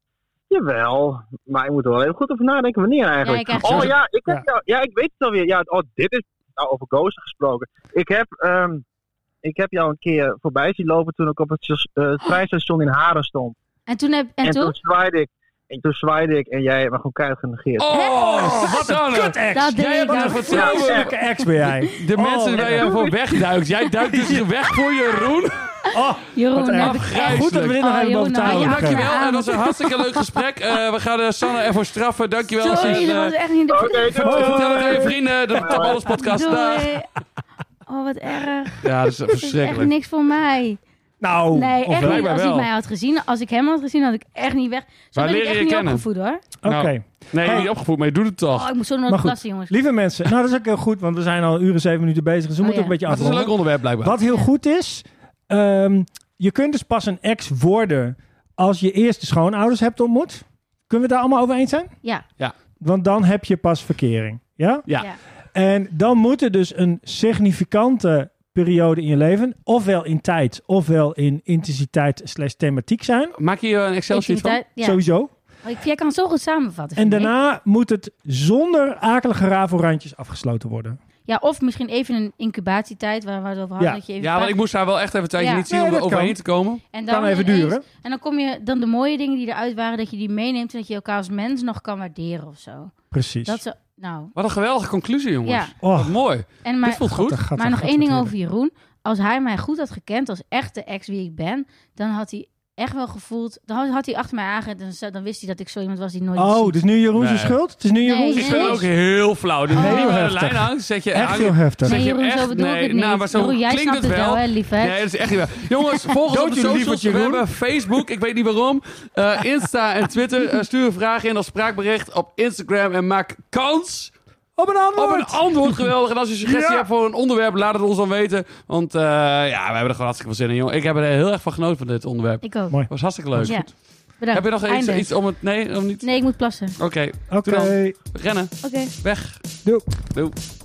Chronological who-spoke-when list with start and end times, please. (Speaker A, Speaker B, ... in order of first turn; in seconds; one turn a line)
Speaker A: 0.5-8.8
Speaker B: 3.2-3.9
Speaker C: 3.6-4.4
Speaker A: 9.4-13.5
Speaker B: 13.9-14.8
Speaker A: 14.4-17.9
Speaker D: 17.8-21.1
Speaker B: 17.9-18.5
Speaker C: 18.1-23.1
Speaker B: 19.5-21.4
Speaker A: 20.5-21.1
Speaker D: 21.9-25.6
Speaker C: 24.1-24.4
Speaker C: 25.9-29.1
Speaker B: 25.9-30.4
Speaker D: 26.6-27.8
Speaker D: 28.4-33.3
Speaker B: 32.6-34.4
Speaker A: 33.7-35.1
Speaker C: 34.2-35.6
Speaker D: 34.2-36.9
Speaker A: 35.6-36.0
Speaker B: 36.0-37.1
Speaker B: 37.9-40.8
Speaker D: 38.8-39.9
Speaker C: 41.2-42.3
Speaker B: 41.5-46.4
Speaker D: 41.9-42.7
Speaker D: 45.1-46.0
Speaker C: 46.6-47.7
Speaker D: 46.6-48.7
Speaker B: 47.4-47.7
Speaker B: 48.5-49.7
Speaker C: 49.1-61.9
Speaker B: 52.6-53.3
Speaker D: 53.0-54.2
Speaker C: 62.8-64.9
Speaker D: 64.9-65.1
Speaker C: 65.5-73.3
Speaker D: 73.3-74.6
Speaker B: 74.1-75.0
Speaker C: 74.8-75.3
Speaker B: 75.6-77.3
Speaker C: 77.0-81.0
Speaker B: 81.2-84.5
Speaker D: 84.2-86.8
Speaker B: 85.4-85.7
Speaker C: 85.7-86.4
Speaker B: 86.9-94.3
Speaker C: 87.1-87.8
Speaker C: 93.1-93.6
Speaker D: 94.3-97.4
Speaker B: 95.5-95.7
Speaker C: 95.8-96.2
Speaker B: 96.6-106.8
Speaker C: 96.8-98.3
Speaker C: 106.3-108.9
Speaker D: 107.2-107.6
Speaker B: 108.0-108.8
Speaker D: 108.3-124.1
Speaker C: 109.7-112.0
Speaker B: 109.8-110.1
Speaker B: 111.8-115.0
Speaker C: 116.2-117.5
Speaker C: 124.5-125.9
Speaker D: 124.9-133.7
Speaker C: 126.4-126.9
Speaker B: 132.4-132.8
Speaker C: 132.7-133.7
Speaker B: 133.4-135.1
Speaker D: 134.3-136.1
Speaker B: 136.0-136.8
Speaker D: 136.8-139.4
Speaker C: 137.3-138.0
Speaker B: 138.6-138.9
Speaker C: 139.6-140.1